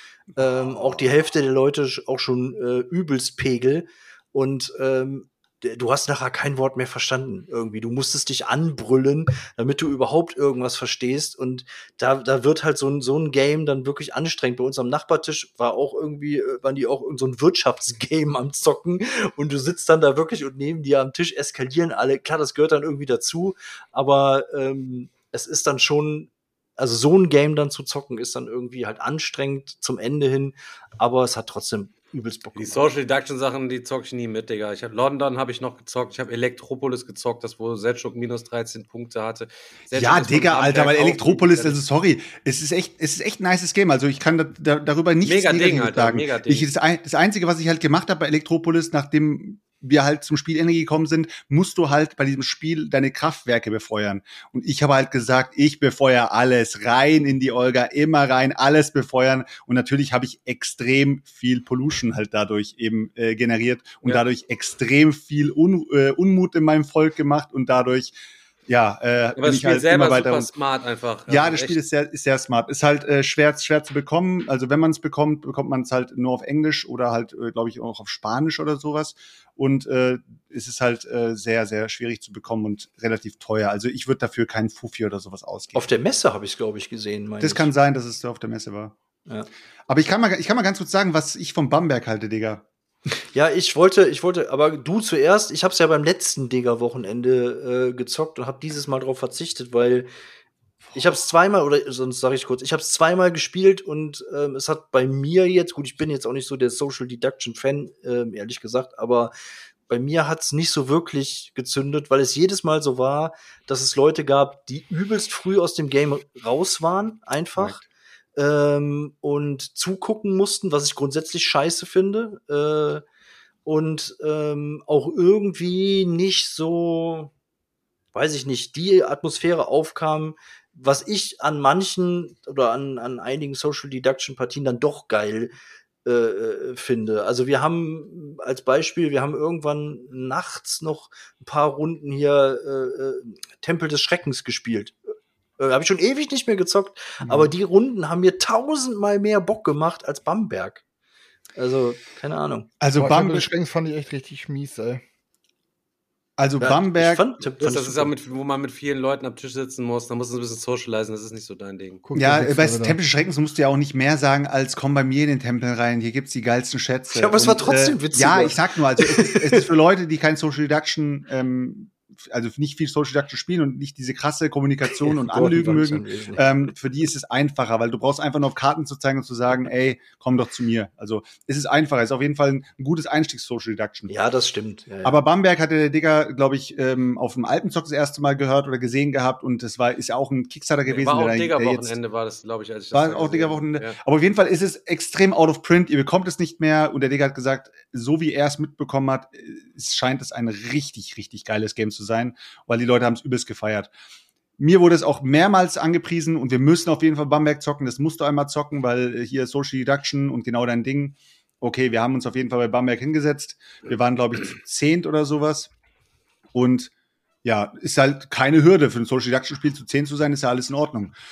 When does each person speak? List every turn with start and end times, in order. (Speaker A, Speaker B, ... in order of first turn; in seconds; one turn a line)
Speaker A: 0.4-32.9
Speaker B: 32.5-41.8
Speaker C: 39.9-68.2
Speaker B: 45.2-46.7
Speaker C: 68.7-70.5
Speaker B: 69.4-71.8
Speaker C: 71.3-85.9
Speaker A: 85.8-87.7
Speaker C: 87.4-89.0
Speaker C: 89.9-92.6
Speaker A: 93.3-100.1
Speaker A: 100.9-109.3
Speaker A: 109.9-117.8
Speaker C: 117.6-117.8
Speaker A: 118.4-123.0
Speaker A: 123.7-127.3
Speaker A: 128.1-135.5
Speaker A: 136.1-145.0
Speaker A: 145.6-150.8
Speaker C: 147.2-147.5
Speaker A: 151.6-152.7
Speaker C: 152.8-153.5
Speaker D: 152.9-155.0
Speaker C: 156.4-157.3
Speaker A: 156.6-158.1
Speaker B: 157.6-162.0
Speaker D: 162.1-163.0
Speaker C: 162.2-184.2
Speaker A: 167.1-169.7
Speaker A: 175.0-176.5
Speaker A: 184.1-185.2
Speaker C: 185.0-192.0
Speaker B: 190.9-194.0
Speaker C: 192.9-203.9
Speaker C: 204.6-215.7
Speaker C: 216.5-216.9
Speaker C: 217.4-221.1